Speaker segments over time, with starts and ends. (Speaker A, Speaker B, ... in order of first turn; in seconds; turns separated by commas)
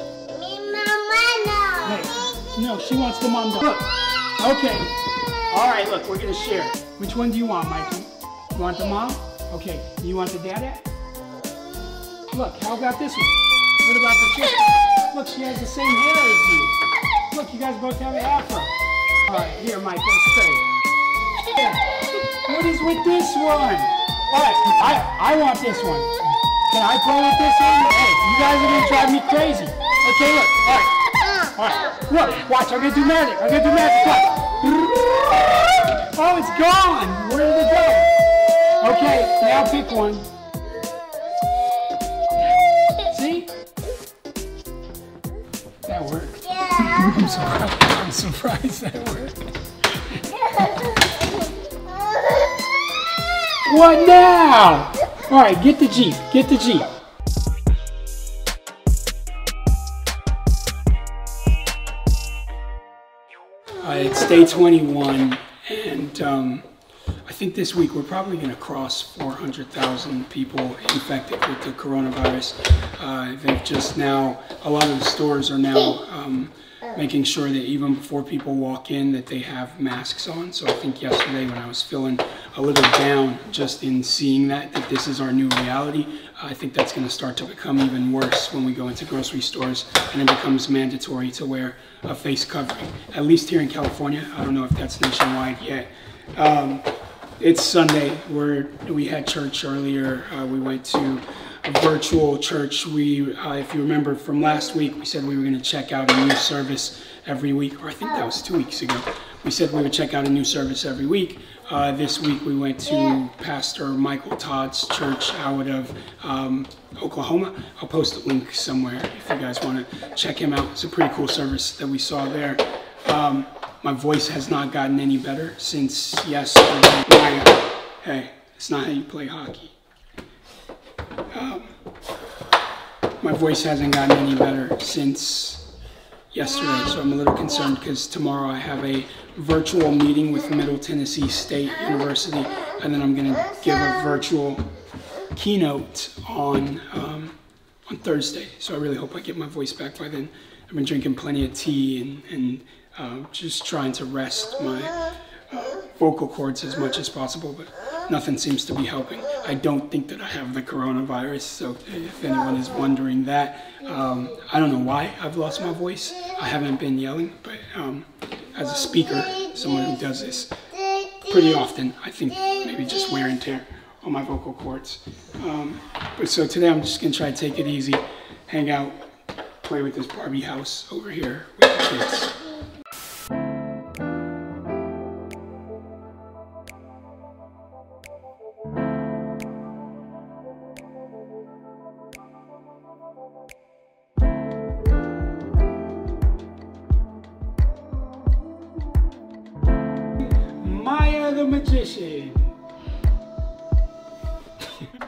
Speaker A: 0.3-2.1, Speaker B: 1.8-5.0, Speaker B: 5.5-10.8, Speaker B: 12.3-16.8, Speaker B: 17.3-20.7, Speaker B: 21.5-26.1, Speaker B: 26.7-30.9, Speaker B: 31.6-38.1, Speaker B: 38.8-40.3, Speaker B: 43.0-43.5, Speaker B: 45.8-49.4, Speaker A: 46.7-47.2, Speaker B: 50.0-50.5, Speaker A: 50.5-52.3, Speaker B: 53.6-56.9, Speaker B: 63.8-66.7, Speaker B: 67.2-96.9, Speaker B: 97.4-129.7, Speaker B: 131.3-131.7, Speaker B: 133.2-135.7, Speaker B: 136.3-144.7, Speaker B: 145.3-170.6, Speaker A: 170.9-171.2, Speaker B: 171.2-179.0, Speaker B: 179.6-182.4, Speaker B: 200.2-202.5